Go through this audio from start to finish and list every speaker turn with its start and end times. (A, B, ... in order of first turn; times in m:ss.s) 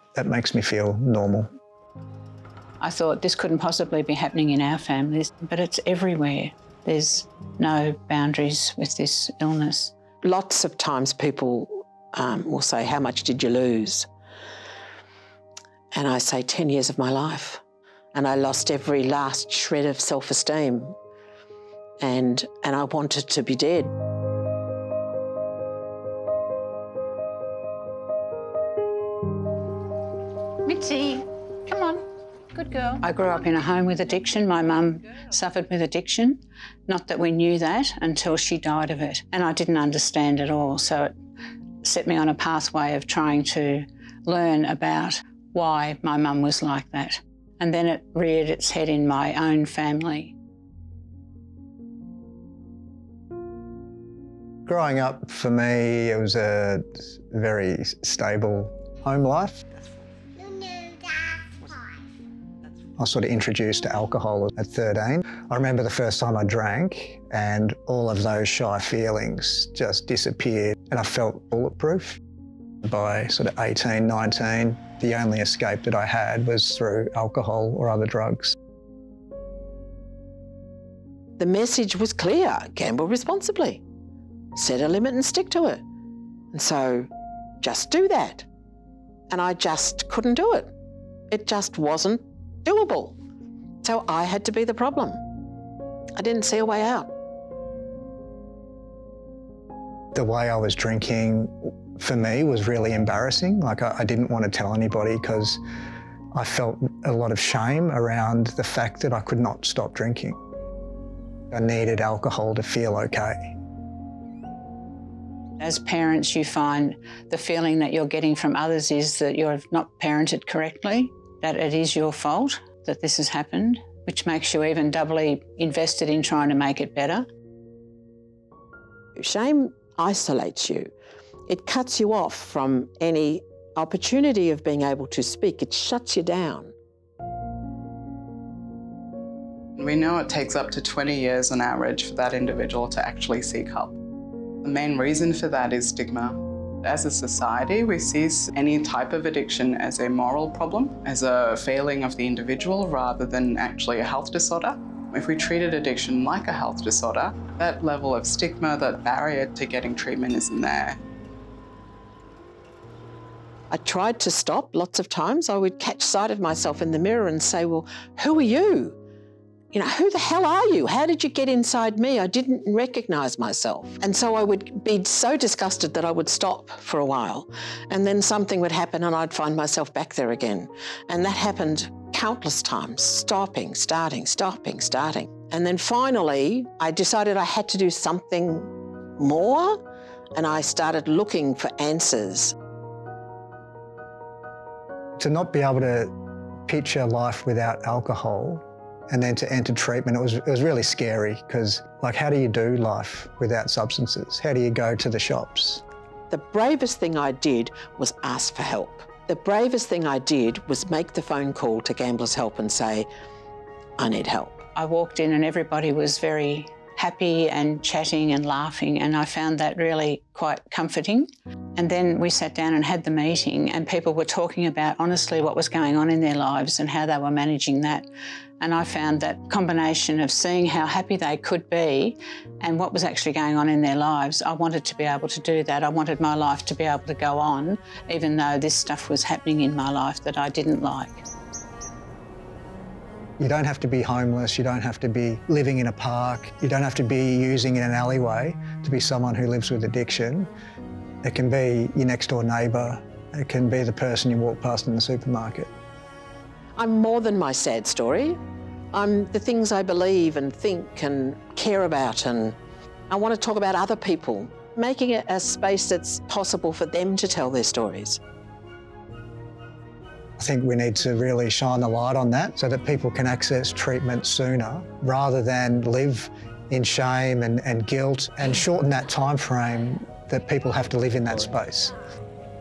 0:00.2-0:01.5 A
0:02.8-0:09.9 B
0:10.2-0:14.1 C
0:15.9-0:17.6 C
0:18.1-0:21.0 C
0:22.0-0:23.9 C
0:30.6-0:41.1 B
0:41.8-0:50.3 B
0:54.7-0:59.7 A
1:03.0-1:12.2 A
1:12.8-1:18.6 A
1:21.4-1:23.8 C
1:24.6-1:25.8 C
1:26.5-1:27.1 C
1:27.6-1:28.5 C
1:29.3-1:30.7 C
1:31.3-1:33.2 C
1:33.8-1:35.2 C
1:36.2-1:37.1 C
1:40.2-1:45.6 A
1:46.3-1:50.4 A
1:51.5-1:53.5 A
1:55.6-2:07.3 B
2:09.2-2:10.9 C
2:11.5-2:16.7 C
2:19.8-2:24.0 D
2:24.6-2:41.0 D
2:43.7-2:49.0 C
2:49.7-3:09.8 C
3:10.3-3:12.5 C
3:15.2-3:16.1 A
3:16.7-3:25.8 A
3:26.3-3:33.1 C
3:34.0-3:34.6 C
3:34.8-3:48.0 B
3:48.6-4:01.2 B
4:03.4-4:10.5 A
4:11.2-4:15.7 A
4:16.8-4:18.4 C
4:18.9-4:22.6 C
4:23.1-4:28.2 C
4:30.4-4:41.9 A